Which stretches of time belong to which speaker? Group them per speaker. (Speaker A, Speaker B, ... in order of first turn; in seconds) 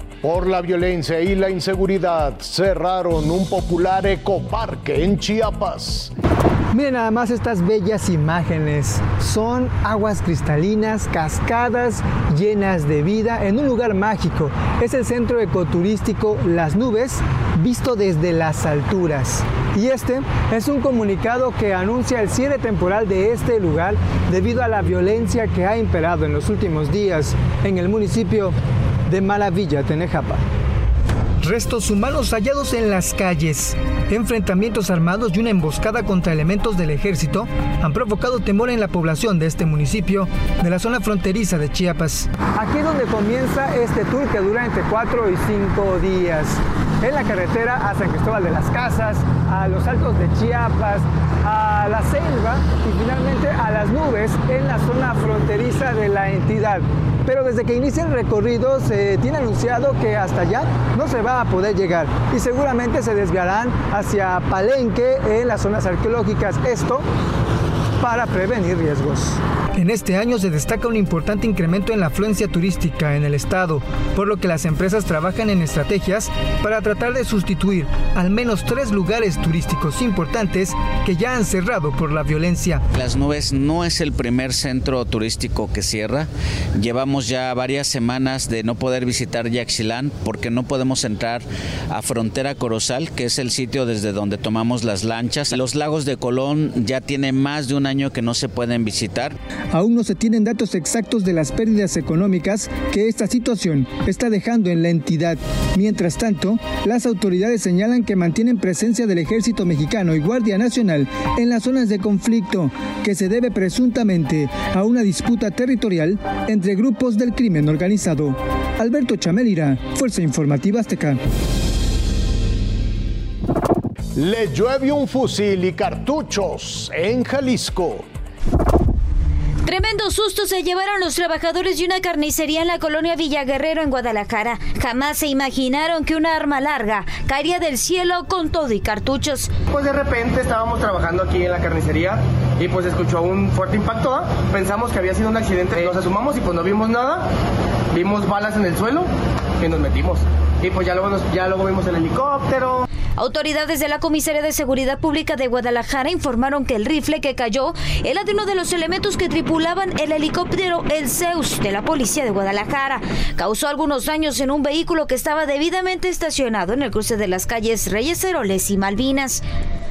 Speaker A: 0.2-6.1, 124.1-128.1
Speaker B: 6.7-28.5, 29.1-30.4, 31.4-67.0, 68.0-82.8, 99.7-121.2
Speaker C: 82.9-99.3
Speaker D: 129.6-139.5, 153.2-169.4
Speaker E: 139.7-147.3, 147.9-152.8